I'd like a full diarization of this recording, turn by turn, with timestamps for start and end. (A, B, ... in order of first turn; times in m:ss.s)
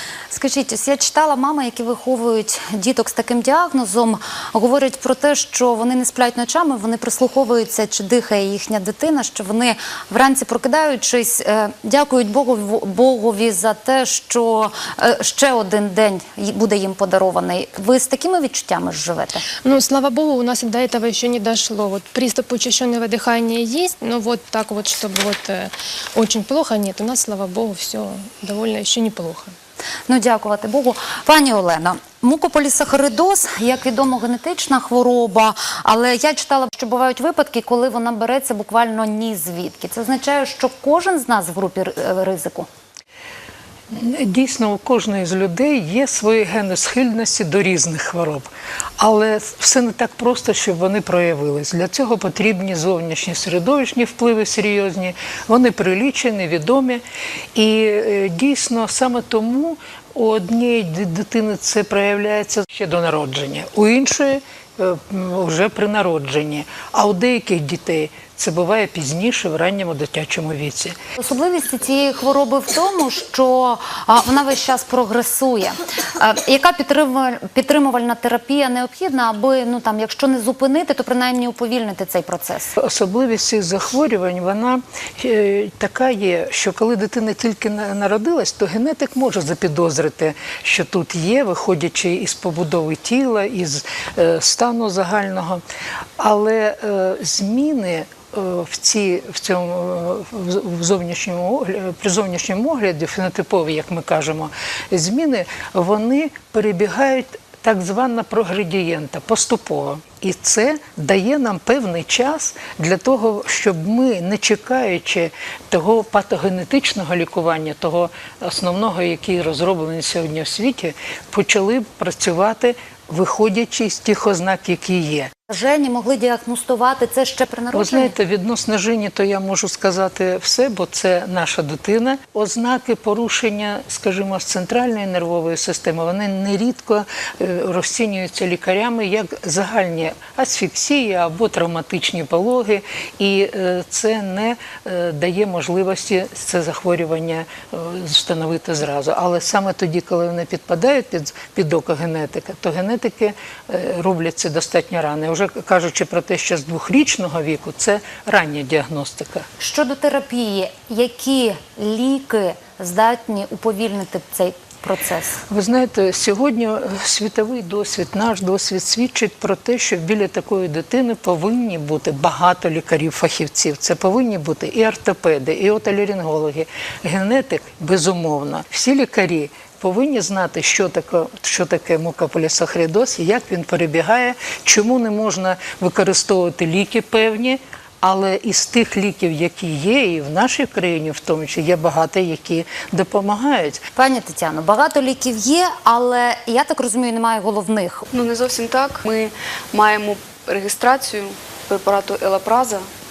0:00.3-0:19.4 A
0:19.6-0:29.6 B
0:30.1-0:42.7 A
0:43.9-0:48.5 C
0:49.0-0:57.0 C
0:57.6-1:11.0 C
1:11.2-1:22.7 A
1:22.8-1:35.6 C
1:36.2-2:05.3 C
2:05.5-2:08.2 A
2:07.7-2:39.5 C
2:39.6-2:45.4 A
2:45.5-3:13.8 C
3:14.0-3:18.0 A
3:18.1-3:22.9 D